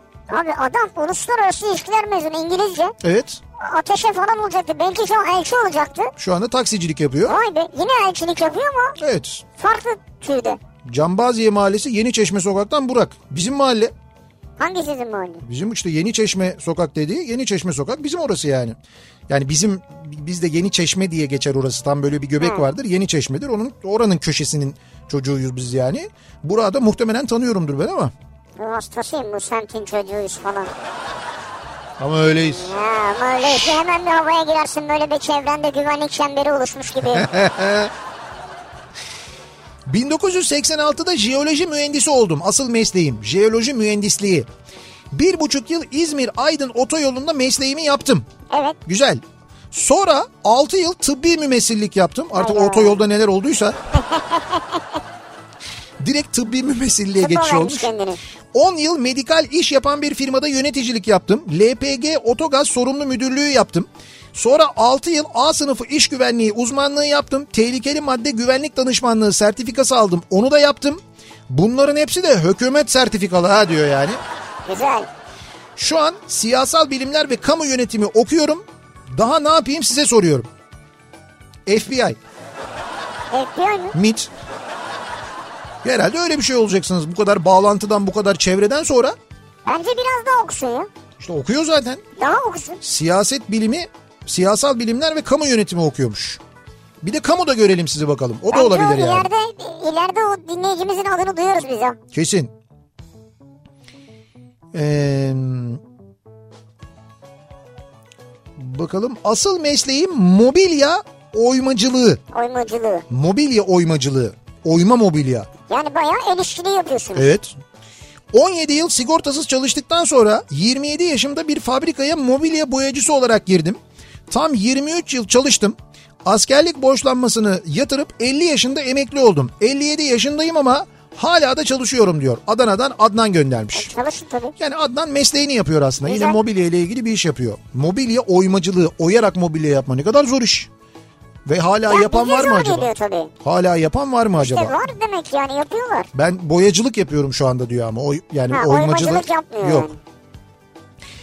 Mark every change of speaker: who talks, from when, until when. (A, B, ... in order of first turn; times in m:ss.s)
0:00.3-0:02.9 A
0:03.0-0:03.4 B
0:03.6-0:06.1 A
0:06.2-0:07.4 B
0:07.3-0:09.0 A
0:09.0-0:09.4 B
0:09.6-0:10.6 A
0:10.9-0:13.9 B
0:14.6-0:15.4 A
0:15.4-0:18.8 B
0:19.3-0:28.1 B
0:28.6-0:30.7 A
0:32.0-0:32.7 B
0:32.5-0:37.3 A
0:33.4-0:33.8 B
0:37.1-0:37.9 B
0:39.9-0:44.5 B
0:45.1-0:48.3 B
0:48.5-0:48.8 A
0:48.8-0:53.8 B
0:52.4-0:53.0 A
0:53.9-0:54.8 A
0:56.0-0:57.9 B
0:57.2-0:58.2 A
0:58.5-1:14.2 B
1:14.6-1:15.1 A
1:15.8-1:18.6 B
1:19.2-1:20.5 B
1:21.6-1:22.2 B
1:23.3-1:23.9 A
1:23.9-1:24.3 B
1:25.8-1:29.2 B
1:29.6-1:30.9 A
1:31.2-1:32.0 B
1:32.2-1:32.8 A
1:32.8-1:36.4 B
1:37.0-1:39.3 B
1:38.5-1:42.0 A
1:42.1-1:42.5 B
1:44.7-1:45.8 B
1:48.6-1:52.2 B
1:52.3-1:53.1 A
1:53.1-1:55.5 B
1:55.7-1:57.3 A
1:57.2-1:57.6 B
1:58.3-2:03.8 B
2:04.3-2:13.9 B
2:13.7-2:14.5 A
2:14.6-2:20.7 B
2:16.0-2:16.4 A
2:21.4-2:22.9 B
2:21.9-2:23.3 A
2:23.4-2:24.8 B
2:24.4-2:26.1 A
2:26.1-2:29.9 B
2:28.5-2:30.0 A